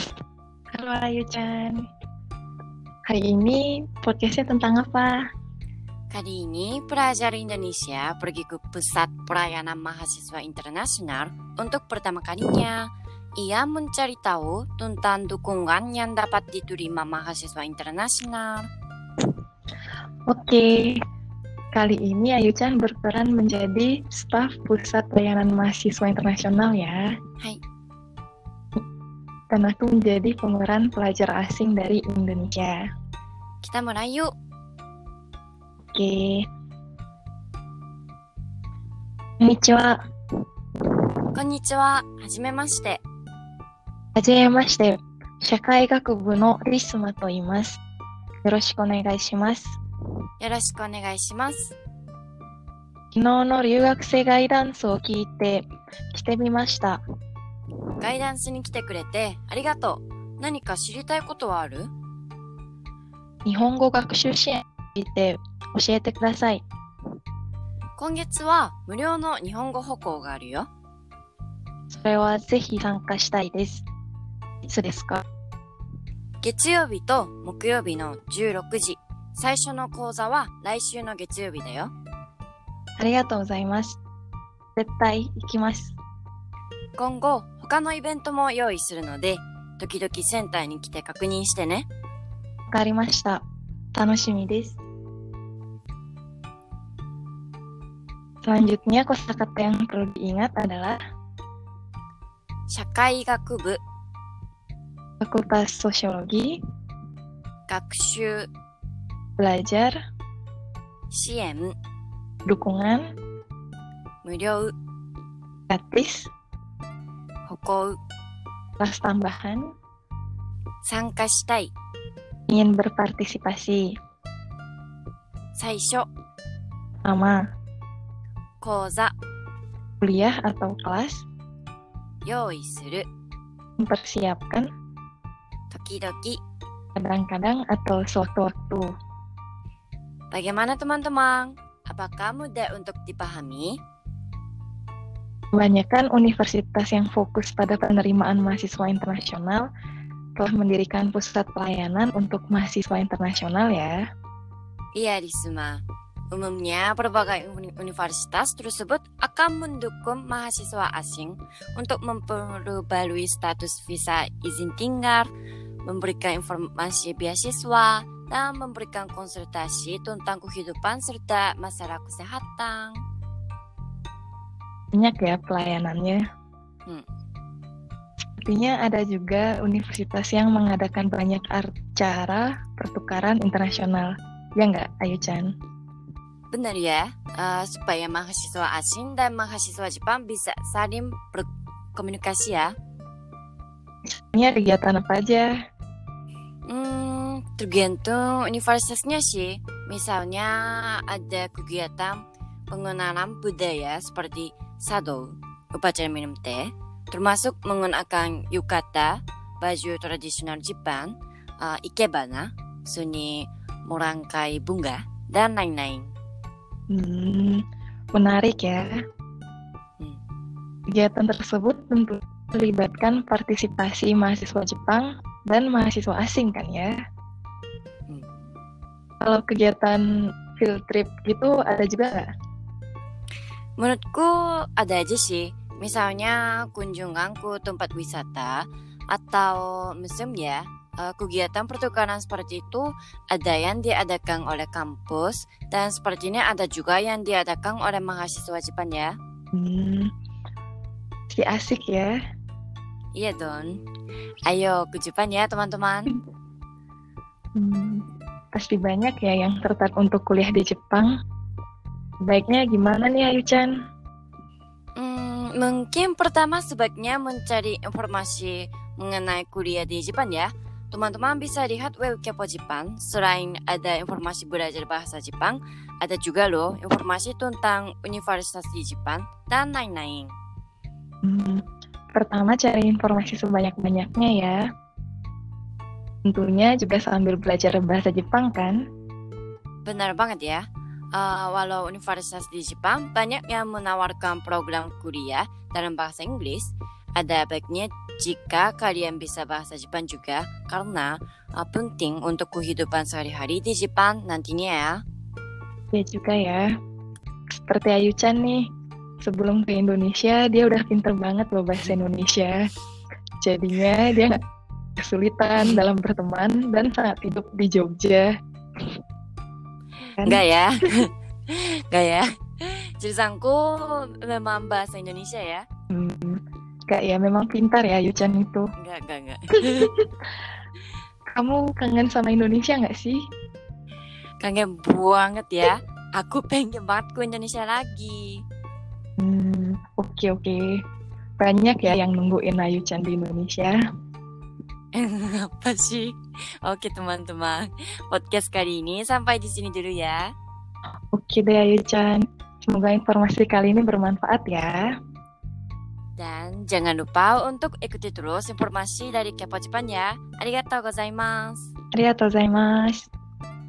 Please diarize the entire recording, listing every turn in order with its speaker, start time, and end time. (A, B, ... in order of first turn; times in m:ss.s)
0:00.7-0:01.9 A
0:03.1-0:05.2 A
0:06.1-0:18.7 B
0:20.3-0:21.0 A
0:21.8-0:27.1 A
0:29.5-0:32.8 A
0:33.6-0:34.3 B
0:35.9-0:36.5 A
0:39.4-0:40.0 A
0:41.3-0:43.0 B
0:44.2-0:47.8 A
0:48.4-0:49.8 A
0:50.4-0:51.8 B
0:53.1-0:57.0 A
0:58.0-1:01.9 B
1:03.4-1:06.6 A
1:08.0-1:10.7 B
1:11.9-1:13.9 A
1:14.7-1:15.2 A
1:16.4-1:21.9 B
1:23.0-1:24.0 A
1:24.8-1:26.0 A
1:27.0-1:31.9 B
1:32.7-1:33.4 A
1:33.9-1:34.8 A
1:38.4-1:41.0 A
1:42.7-1:43.8 B
1:45.2-1:46.6 A
1:47.7-1:48.5 B
1:49.4-1:50.0 A
1:51.1-1:51.7 B
1:52.5-1:53.1 A
1:54.2-1:54.7 B
1:55.7-1:56.3 A
1:57.5-1:58.0 B
1:58.8-1:59.7 A
2:00.8-2:01.7 B
2:02.5-2:04.0 A
2:05.6-2:06.1 B
2:07.0-2:07.4 A
2:08.6-2:09.1 B
2:10.0-2:11.3 A
2:12.2-2:13.1 B
2:13.8-2:14.7 A
2:15.7-2:16.4 B
2:17.0-2:18.9 A
2:20.3-2:23.8 B
2:25.5-2:29.7 A
2:30.4-2:34.0 A
2:35.0-2:45.3 B
2:45.8-2:53.0 B
2:54.9-2:56.2 A
2:58.4-3:05.5 A
3:06.5-3:12.7 B
3:14.1-3:15.5 A
3:16.7-3:36.1 B
3:36.9-3:37.6 A
3:38.1-3:38.9 A
3:40.9-3:47.0 A
3:49.2-3:52.3 A
3:53.8-4:09.2 B
4:09.5-4:10.1 A
4:11.3-4:12.2 A
4:13.2-4:13.8 B
4:14.5-4:16.2 B
4:17.6-4:21.1 A
4:22.2-4:23.8 A
4:25.0-4:40.3 B
4:41.2-4:41.6 A
4:42.1-4:44.6 A
4:46.3-4:48.8 A
4:49.8-5:05.0 B
5:05.9-5:06.7 A
5:07.6-5:08.7 A
5:09.2-5:12.7 A
5:13.4-5:14.4 A
5:15.0-5:18.3 A
5:20.2-5:25.6 B
5:25.9-5:28.7 A
5:28.8-5:29.9 B
5:29.8-5:30.0 A
5:31.4-5:33.2 A
5:34.4-5:38.4 B
5:39.2-5:40.8 A
5:41.4-5:43.8 A
5:44.9-5:50.3 B
5:51.1-5:55.0 A
5:56.2-6:01.7 B
6:01.9-6:03.1 A